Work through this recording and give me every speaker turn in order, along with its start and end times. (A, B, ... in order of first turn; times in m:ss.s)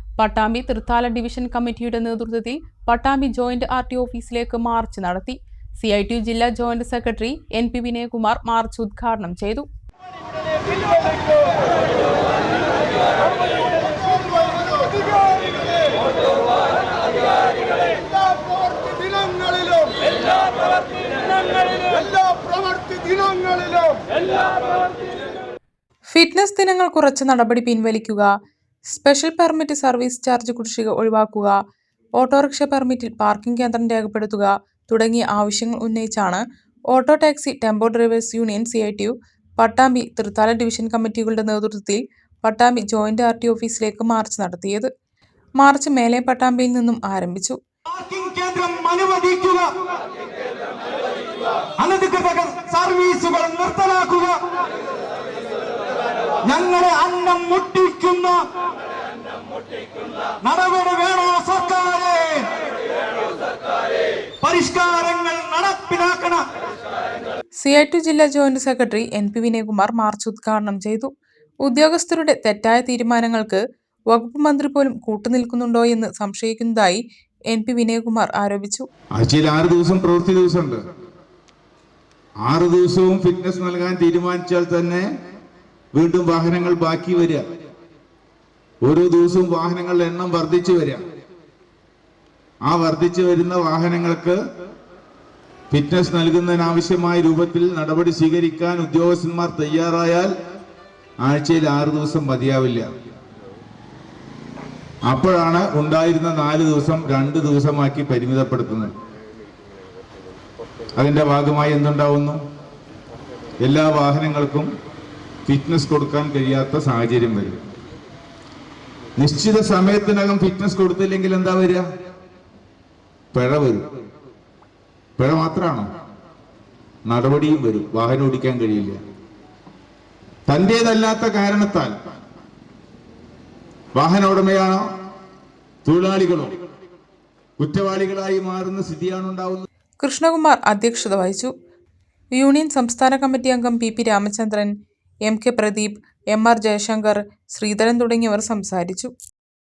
0:00.2-0:09.6 A
0:18.7-0:19.8 B
0:26.1-0:28.3 A
0:28.9-0:31.6 A
0:32.2-0:44.9 A
0:45.6-0:47.6 A
0:47.9-0:49.7 B
0:51.8-0:54.4 B
0:56.4-0:58.4 B
1:00.4-1:02.4 B
1:04.4-1:06.4 B
1:07.6-1:11.1 A
1:11.6-1:13.6 A
1:14.1-1:18.9 A
1:19.2-1:20.8 C
1:22.4-1:25.0 C
1:25.9-1:27.4 C
1:28.8-1:31.0 C
1:32.6-1:34.4 C
1:35.7-1:40.3 C
1:41.2-1:42.8 C
1:45.1-1:48.9 C
1:50.9-1:52.4 C
1:53.6-1:54.7 C
1:55.4-1:57.6 C
1:59.2-2:01.8 C
2:03.3-2:03.8 C
2:05.2-2:05.8 C
2:07.1-2:09.0 C
2:10.5-2:11.9 C
2:14.0-2:14.8 C
2:15.8-2:16.6 C
2:17.6-2:19.6 C
2:20.0-2:21.5 A
2:22.3-2:24.7 A
2:25.2-2:29.1 A